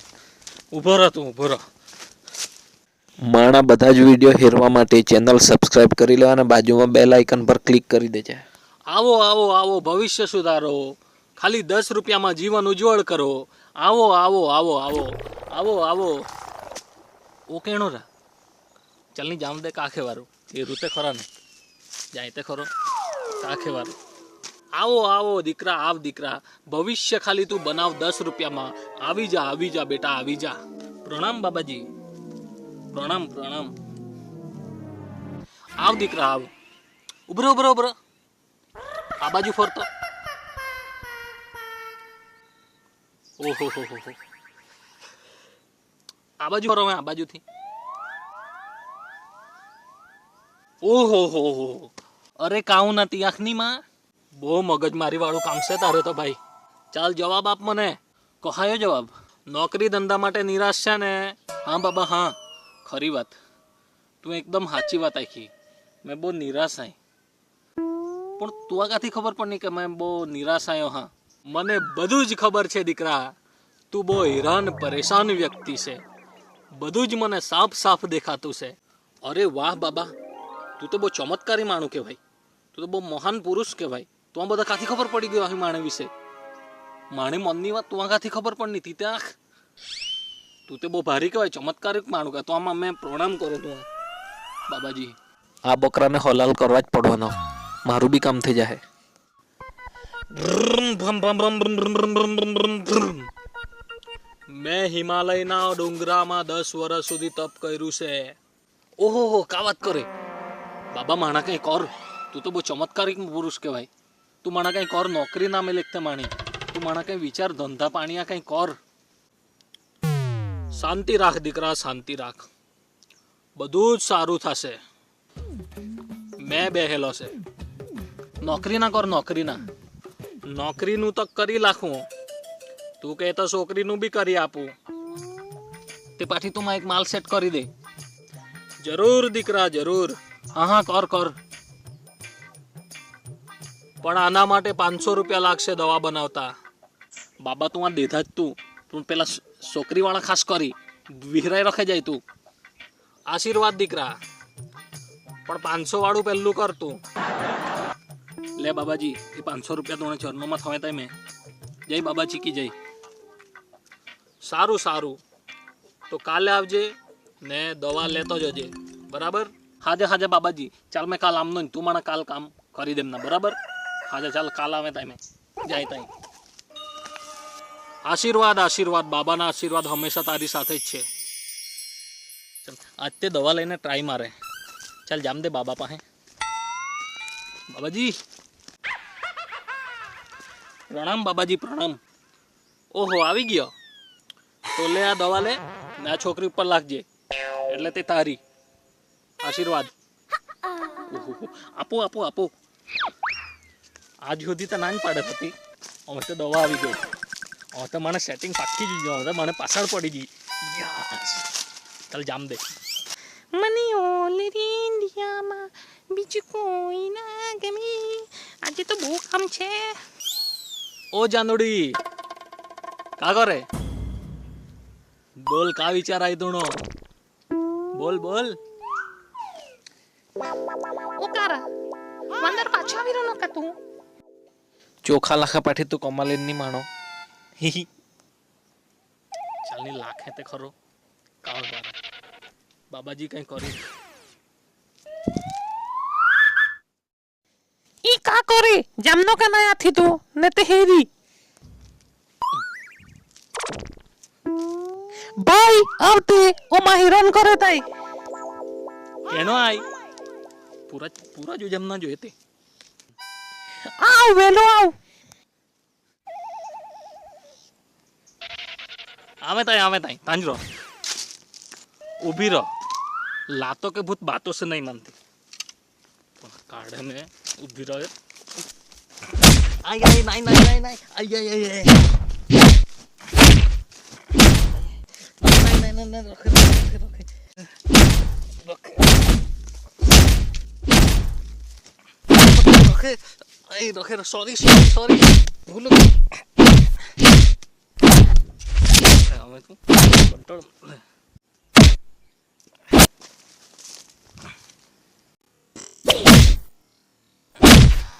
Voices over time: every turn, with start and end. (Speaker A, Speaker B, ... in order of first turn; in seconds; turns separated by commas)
Speaker A: 0.7-1.6, Speaker B: 3.2-8.4, Speaker A: 8.9-16.2, Speaker A: 17.5-18.1, Speaker A: 19.1-21.2, Speaker A: 22.1-22.7, Speaker A: 23.4-23.9, Speaker A: 24.8-31.9, Speaker A: 32.9-33.7, Speaker A: 35.8-36.5, Speaker A: 37.3-37.9, Speaker A: 39.2-39.9, Speaker A: 43.4-44.2, Speaker A: 46.4-47.4, Speaker A: 50.8-53.8, Speaker A: 54.4-56.4, Speaker A: 56.9-63.4, Speaker A: 64.2-65.5, Speaker A: 66.0-67.0, Speaker A: 68.4-73.3, Speaker A: 73.9-76.0, Speaker A: 76.7-80.1, Speaker A: 80.8-82.2, Speaker A: 82.7-86.1, Speaker A: 87.1-89.3, Speaker A: 90.7-93.9, Speaker A: 94.7-95.1, Speaker B: 95.7-98.8, Speaker A: 100.3-103.3, Speaker A: 104.5-108.3, Speaker A: 109.0-110.1, Speaker A: 110.9-113.9, Speaker A: 114.4-118.8, Speaker A: 120.7-122.5, Speaker A: 123.6-124.8, Speaker A: 126.4-127.3, Speaker A: 128.4-129.6, Speaker A: 130.5-132.1, Speaker A: 133.0-134.7, Speaker A: 136.2-137.7, Speaker A: 138.8-141.3, Speaker A: 144.0-146.5, Speaker A: 147.4-152.2, Speaker A: 153.3-154.2, Speaker A: 155.4-157.0, Speaker A: 158.6-161.1, Speaker A: 161.9-162.7, Speaker A: 164.4-165.2, Speaker A: 166.1-173.6, Speaker A: 174.1-176.1, Speaker A: 178.0-181.1, Speaker A: 182.6-184.3, Speaker A: 185.1-186.0, Speaker A: 187.7-188.1, Speaker A: 190.9-192.0, Speaker A: 192.9-193.7, Speaker A: 194.7-197.0, Speaker A: 197.7-198.4, Speaker A: 199.4-199.9, Speaker A: 201.1-202.5, Speaker A: 204.2-205.5, Speaker A: 206.1-207.0, Speaker A: 207.7-211.5, Speaker A: 212.1-212.6, Speaker C: 213.5-220.0, Speaker A: 221.1-222.0, Speaker A: 223.2-223.6, Speaker A: 225.4-226.8, Speaker A: 227.9-228.6, Speaker C: 231.2-231.6, Speaker C: 232.4-233.8, Speaker B: 235.0-236.9, Speaker A: 239.6-240.7, Speaker A: 241.4-242.0, Speaker A: 242.9-243.8, Speaker C: 248.0-251.1, Speaker C: 255.4-257.8, Speaker A: 259.3-259.8, Speaker A: 260.9-262.3, Speaker C: 264.0-264.9, Speaker A: 269.4-270.6, Speaker A: 272.2-272.7, Speaker A: 273.5-275.1, Speaker A: 276.4-278.1, Speaker A: 279.8-282.0, Speaker A: 285.4-287.3, Speaker A: 288.6-289.1, Speaker A: 292.3-296.2, Speaker A: 299.1-301.0